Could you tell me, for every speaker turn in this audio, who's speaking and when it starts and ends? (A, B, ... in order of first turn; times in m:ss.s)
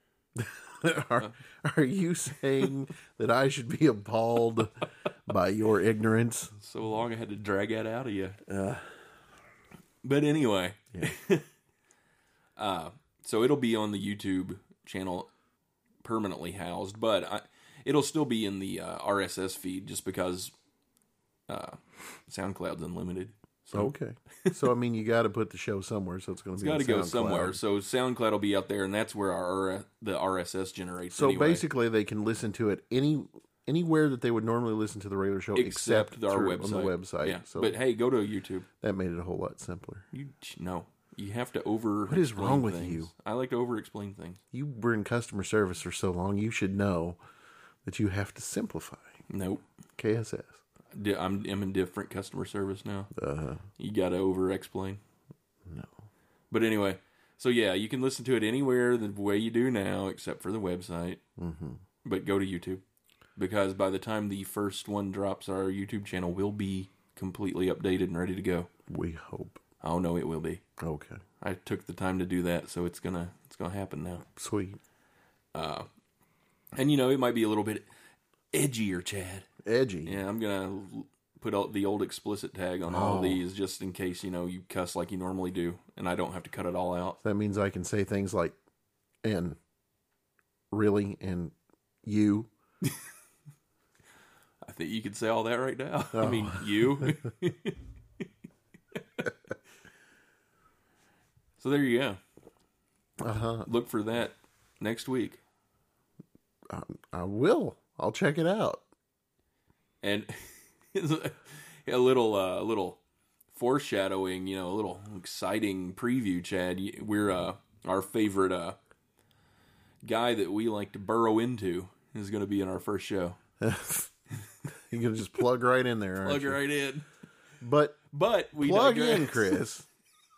0:00.4-0:06.6 A
0:06.6-0:08.4 B
0:08.5-0:09.0 A
0:10.0-0:11.5 B
0:12.6-0:15.3 B
0:16.0-0:20.5 B
0:21.5-0:23.9 B
0:23.7-0:27.6 A
0:26.6-0:31.6 B
0:31.1-0:37.8 A
0:35.6-0:38.7 B
0:38.8-0:40.1 A
0:40.1-0:44.4 B
0:42.1-0:43.1 A
0:44.5-0:47.2 A
0:47.8-0:49.2 A
0:49.3-0:49.6 B
0:50.0-0:50.6 A
0:50.9-0:53.1 B
0:53.1-0:53.7 A
0:53.8-0:55.0 B
0:55.7-0:55.9 A
0:56.5-1:01.2 B
1:01.4-1:01.8 A
1:02.0-1:02.8 B
1:03.4-1:08.7 B
1:08.9-1:09.6 A
1:09.8-1:10.6 B
1:10.8-1:11.2 A
1:11.4-1:14.3 B
1:14.4-1:14.8 A
1:15.5-1:15.9 B
1:16.8-1:17.9 B
1:18.5-1:19.5 B
1:19.6-1:20.2 A
1:20.0-1:27.2 B
1:22.9-1:23.4 A
1:27.2-1:28.6 A
1:29.2-1:29.6 A
1:30.7-1:32.5 A
1:34.6-1:37.8 B
1:36.1-1:37.2 A
1:41.6-1:42.2 B
1:43.2-1:43.7 A
1:43.6-1:45.4 B
1:46.7-1:48.8 A
1:50.0-1:53.0 B
1:53.5-1:58.8 B
2:00.0-2:03.4 B
2:03.6-2:04.1 A
2:04.7-2:06.6 A
2:06.2-2:07.1 B
2:07.6-2:08.0 A
2:08.1-2:09.6 B
2:08.6-2:09.9 A